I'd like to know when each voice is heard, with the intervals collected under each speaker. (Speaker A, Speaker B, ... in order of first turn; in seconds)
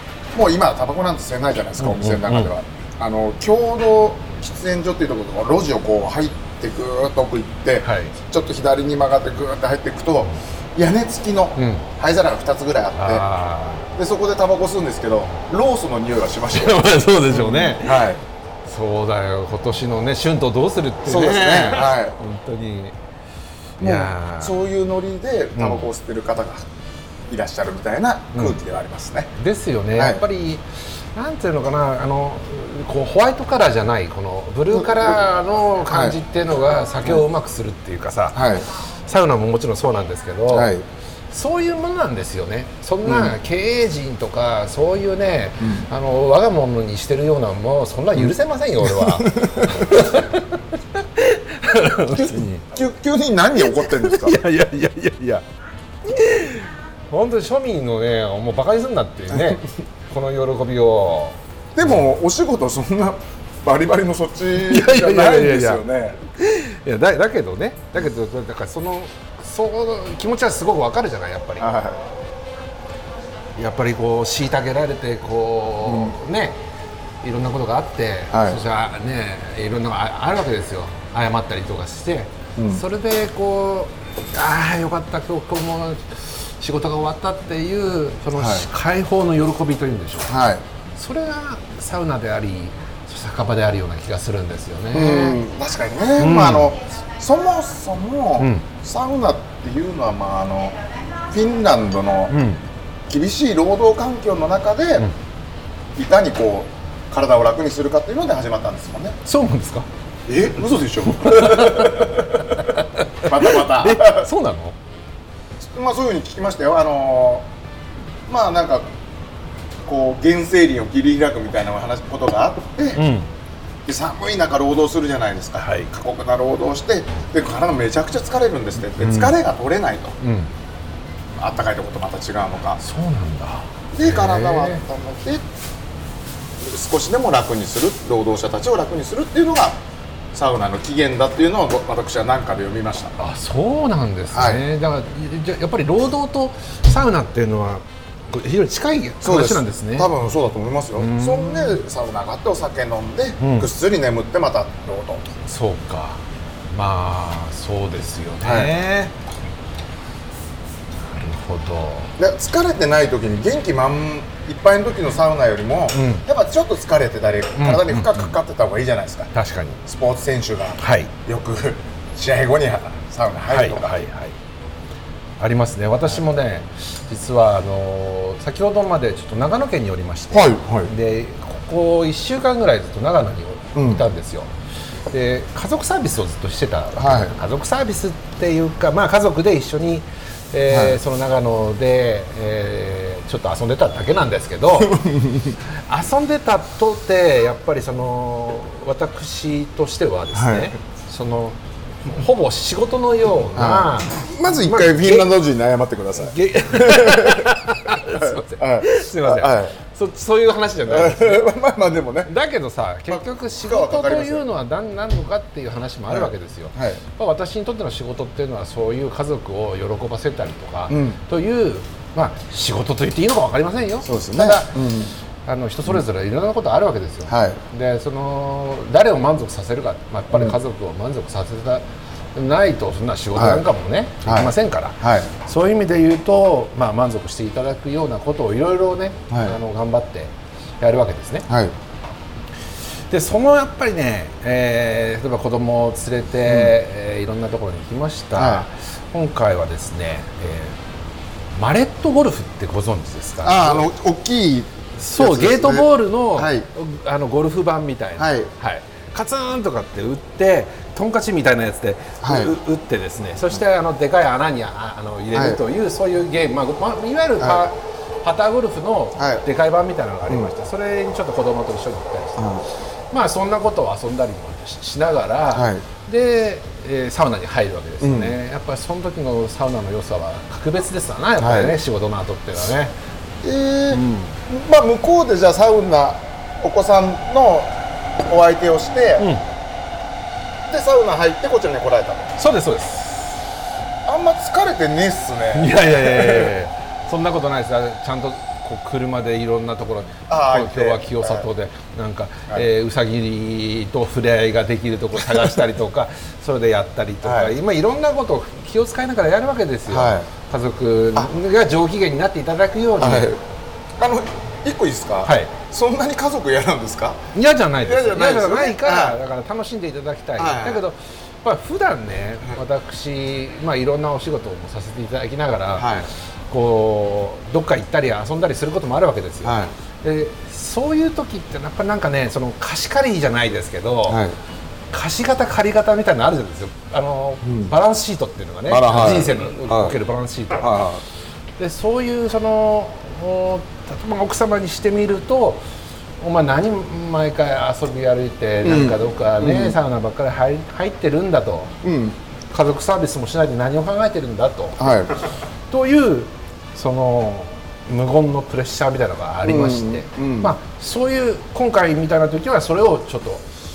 Speaker A: 0.3-13.2, 13.9-18.2, 21.0-22.1, 23.8-26.6, 27.3-29.3, 29.9-30.2, 34.7-35.2, 35.8-36.2, 38.3-38.6, 40.5-40.8, 43.0-43.4, 48.8-50.1, 52.1-54.4, 59.3-59.6, 61.7-66.2, 71.6-72.0, 75.8-76.2, 78.3-78.6, 82.5-82.8, 88.3-88.7, 90.3-90.6, 94.9-102.3, 103.1-105.1, 105.9-109.2, 110.3-112.7, 113.2-114.3, 115.6-117.5, 118.3-118.9, 119.8-123.0, 123.8-130.2, 131.3-132.8, 133.9-135.4, 136.6-139.8, 140.3-143.1, 144.3-144.6, 149.2-155.2, 158.4-158.7, 162.2-169.3, 169.8-174.0, 180.3-180.9, 183.7-184.0, 186.9-187.3, 190.7-191.0, 194.8-195.6, 200.3-200.7, 203.5-209.8, 210.9-212.3, 213.1-214.4, 216.1-217.0, 220.9-221.2, 224.0-225.1, 227.3-227.6, 233.3-233.6, 234.2-235.3, 239.3-239.6, 241.5-241.7, 246.4-246.7, 248.3-248.7, 253.4-256.7, 258.2-258.5, 262.2-262.5, 265.3-265.6, 267.4-267.7, 269.1-269.4, 272.4-272.6, 275.5-275.8, 278.0-278.4, 281.4-281.7, 283.4-289.3, 290.7-292.3, 294.0-296.5, 300.3-301.5, 305.2-305.5, 307.2-307.5, 309.9-310.3, 313.0-313.4, 314.0-317.2, 317.8-319.2, 320.4-320.8, 325.8-326.1, 329.4-329.7, 334.1-334.4, 337.4-337.7, 338.7-339.9, 340.6-341.0, 348.6-349.8, 351.8-352.2, 354.8-355.1, 359.4-360.5
Speaker B: 1.8-2.5, 7.8-8.1, 11.6-11.8, 12.9-13.9, 16.5-18.1, 18.6-22.9, 23.8-24.6, 25.6-25.9, 29.4-38.5, 39.0-40.7, 41.3-52.7, 53.7-55.4, 56.0-62.0, 64.5-65.8, 66.4-71.7, 73.5-76.6, 77.2-90.3, 91.0-95.4, 96.2-96.7, 98.4-98.7, 102.3-102.6, 109.2-109.9, 111.1-114.8, 122.9-123.3, 125.6-125.9, 129.0-129.3, 130.2-130.5, 132.8-134.8, 143.2-150.1, 150.9-151.8, 153.4-153.7, 155.4-159.1, 161.0-162.1, 165.9-166.2, 167.6-168.4, 169.3-169.8, 170.8-171.1, 173.5-174.3, 175.4-184.5, 185.1-195.0, 195.7-205.3, 206.2-211.5, 212.2-224.9, 225.4-241.5, 243.1-250.8, 251.5-253.9, 255.0-272.5, 273.1-282.9, 283.9-284.4, 289.2-289.4, 292.4-293.3, 295.5-313.4, 315.2-315.5, 317.3-325.9, 326.5-334.2, 334.9-340.8, 341.6-345.6, 346.2-351.7, 352.5-354.8, 355.7-363.4